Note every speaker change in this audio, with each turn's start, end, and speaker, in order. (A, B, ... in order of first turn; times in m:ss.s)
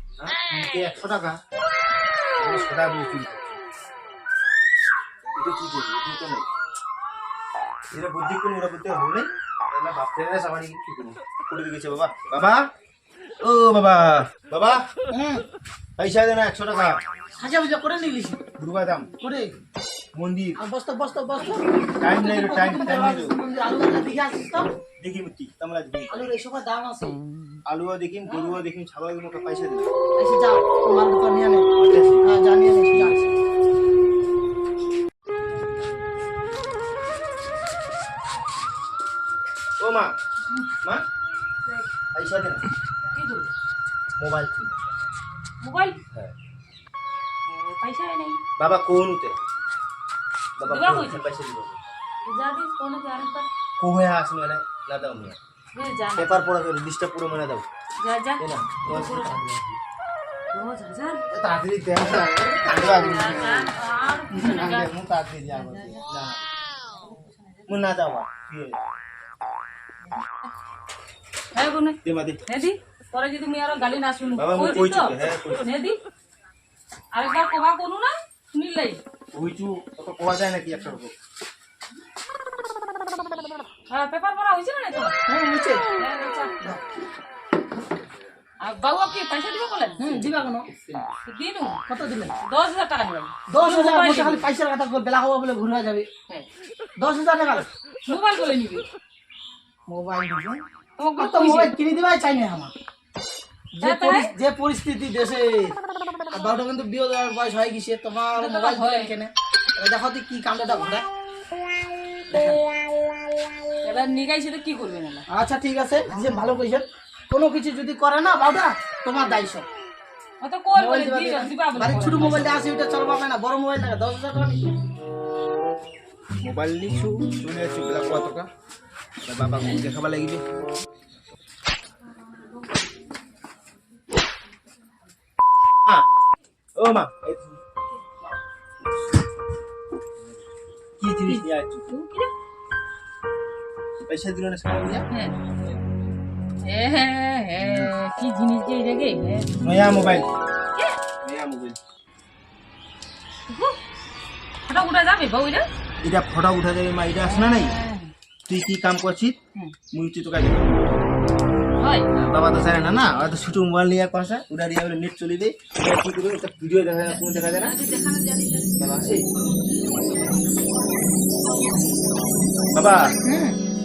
0:00.2-0:01.4 A
0:02.4-0:03.6 A
0:05.4-0:06.5 A
0:07.9-0:12.7 A
0:13.4-0:14.9 A
0:15.1-0:15.4 B
0:16.0-0:17.0 A
0:17.4-0:18.4 B
0:18.6-0:19.1 A
0:19.2-0:19.6 B
0:20.1-0:20.6 A
0:20.6-0:24.7 B
0:22.0-0:23.4 A
0:25.0-0:26.3 A
0:26.1-0:27.2 B
0:27.7-0:29.9 A
0:28.3-0:28.6 B
0:30.2-0:31.7 B
0:31.8-0:32.2 A
0:32.2-0:33.2 B
0:32.9-0:33.3 A
0:39.8-0:40.2 A
0:42.1-0:42.6 A
0:43.1-0:43.5 C
0:44.2-0:44.9 A
0:45.6-0:46.0 C
0:47.5-0:48.4 C
0:48.6-0:49.4 A
0:50.6-0:51.8 A
0:50.7-0:51.2 C
0:52.2-0:53.5 C
0:53.8-0:55.4 A
0:55.7-0:56.5 C
0:56.2-0:57.7 A
0:58.0-0:59.6 C
0:58.4-0:59.8 A
1:00.5-1:01.2 C
1:01.3-1:03.7 A
1:02.8-1:04.9 C
1:04.3-1:06.4 A
1:05.6-1:06.0 C
1:06.9-1:07.8 C
1:07.7-1:08.8 A
1:11.6-1:16.0 C
1:12.0-1:12.4 A
1:14.4-1:15.7 A
1:17.1-1:19.0 C
1:19.3-1:21.2 A
1:23.9-1:25.2 C
1:25.3-1:25.8 B
1:26.0-1:26.6 C
1:28.6-1:30.0 C
1:30.0-1:30.7 B
1:30.1-1:31.1 A
1:31.2-1:31.8 C
1:31.9-1:32.4 B
1:32.4-1:34.5 C
1:33.5-1:36.1 B
1:37.0-1:37.7 B
1:38.0-1:38.9 C
1:39.9-1:40.6 B
1:41.0-1:41.7 C
1:41.2-1:42.7 B
1:43.8-1:45.8 B
1:43.8-1:44.3 C
1:46.3-1:51.0 B
1:48.4-1:49.1 C
1:52.3-1:52.6 B
1:53.8-1:55.2 C
1:55.3-1:59.7 B
2:00.4-2:02.6 C
2:00.7-2:04.7 B
2:06.4-2:08.5 A
2:09.2-2:10.4 A
2:16.8-2:17.6 A
2:21.0-2:21.9 A
2:21.3-2:22.3 C
2:24.0-2:25.8 A
2:25.1-2:25.4 C
2:26.6-2:29.5 C
2:27.6-2:27.9 A
2:29.6-2:30.3 A
2:31.2-2:31.8 A
2:33.5-2:33.8 C
2:34.7-2:35.7 C
2:36.0-2:37.8 A
2:37.2-2:38.1 C
2:38.5-2:39.4 A
2:39.9-2:41.0 A
2:41.8-2:42.1 C
2:42.1-2:47.8 A
2:47.0-2:48.8 C
2:48.8-2:49.3 A
2:52.7-2:53.2 A
2:53.2-2:53.6 B